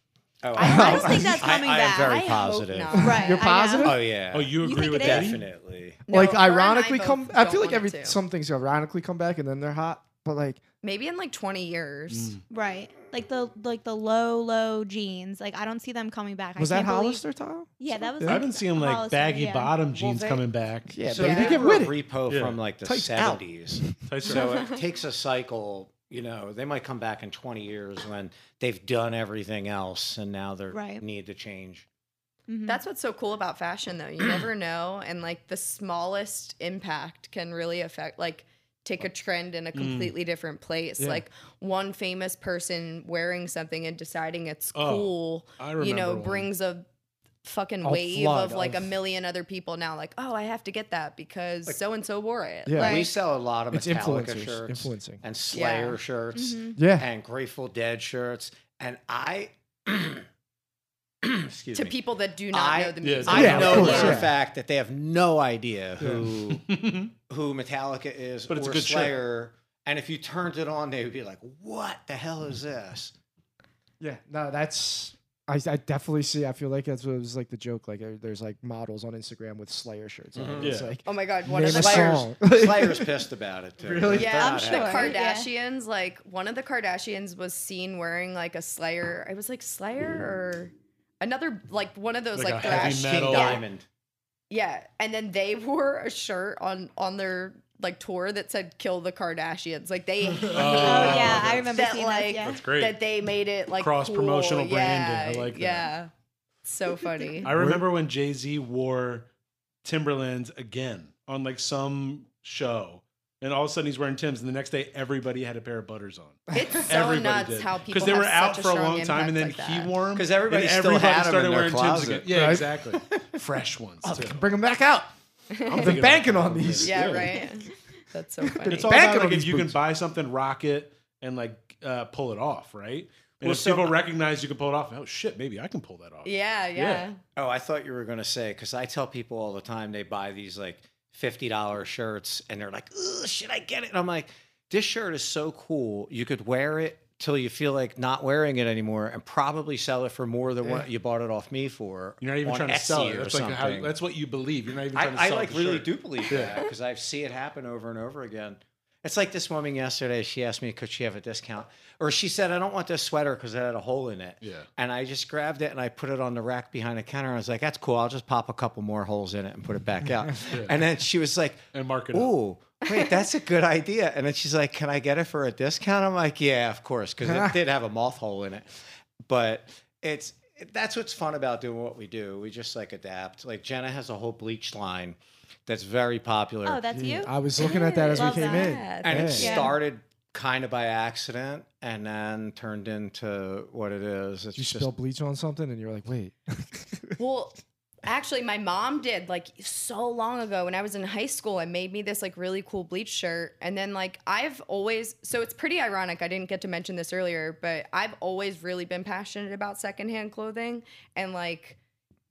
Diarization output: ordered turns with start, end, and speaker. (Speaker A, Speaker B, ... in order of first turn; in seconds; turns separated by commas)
Speaker A: 0.4-3.1, Speaker B: 0.6-2.4, Speaker C: 0.6-1.4, Speaker D: 2.0-3.4, Speaker C: 2.9-4.0, Speaker B: 3.0-4.0, Speaker A: 3.8-6.0, Speaker E: 4.3-5.4, Speaker B: 4.6-5.4, Speaker D: 6.1-8.2, Speaker C: 6.1-10.6, Speaker D: 10.8-12.3, Speaker E: 12.1-12.4, Speaker B: 12.5-17.2, Speaker C: 16.6-18.4, Speaker B: 17.8-19.8, Speaker E: 18.2-21.1, Speaker C: 20.9-22.0, Speaker A: 21.0-31.9, Speaker D: 21.2-21.6, Speaker E: 22.3-22.6, Speaker C: 22.8-24.0, Speaker E: 24.0-24.7, Speaker B: 30.7-31.0, Speaker B: 32.5-32.8, Speaker D: 32.6-46.9, Speaker E: 39.7-40.1, Speaker C: 41.0-41.2, Speaker E: 44.7-46.5, Speaker D: 47.4-53.0, Speaker C: 47.8-49.0, Speaker C: 52.6-53.1, Speaker B: 52.8-53.1, Speaker A: 52.8-60.2, Speaker C: 53.7-55.2, Speaker D: 55.5-56.0, Speaker B: 56.3-56.8, Speaker C: 56.8-57.1, Speaker A: 61.2-62.0, Speaker D: 61.7-64.2, Speaker A: 62.5-66.7, Speaker E: 63.0-64.2, Speaker C: 63.3-64.3, Speaker B: 63.8-64.2, Speaker C: 66.0-66.3, Speaker E: 66.0-67.1, Speaker A: 67.3-73.1, Speaker E: 68.5-69.2, Speaker C: 74.0-83.2, Speaker A: 80.3-80.8, Speaker E: 80.6-81.0, Speaker D: 81.0-82.3, Speaker A: 81.7-85.1, Speaker C: 83.8-84.5, Speaker D: 84.1-93.6, Speaker B: 84.3-85.5, Speaker E: 92.3-93.6, Speaker A: 92.6-93.8, Speaker D: 94.5-106.1, Speaker E: 100.4-101.8, Speaker B: 100.6-102.7, Speaker E: 102.4-103.0, Speaker E: 103.8-105.9, Speaker D: 106.6-107.5, Speaker E: 107.4-109.3, Speaker C: 107.5-107.8, Speaker E: 109.8-124.4, Speaker D: 116.5-119.9, Speaker A: 120.1-122.3, Speaker C: 122.3-123.4, Speaker C: 124.0-125.1, Speaker D: 125.5-125.9, Speaker E: 125.7-127.4, Speaker C: 125.8-127.4, Speaker D: 126.8-128.9, Speaker C: 128.4-129.8, Speaker E: 128.7-137.1, Speaker A: 133.4-134.0, Speaker D: 136.2-137.2, Speaker A: 137.3-153.9, Speaker E: 152.2-156.6, Speaker A: 154.9-178.7, Speaker E: 164.4-164.7, Speaker E: 170.5-170.8, Speaker E: 171.7-172.3, Speaker C: 177.2-177.6, Speaker A: 179.2-186.8, Speaker B: 186.6-188.8, Speaker C: 186.9-189.7, Speaker D: 187.6-189.6, Speaker A: 189.0-194.9, Speaker B: 189.3-189.8, Speaker C: 194.5-197.2, Speaker D: 197.2-211.8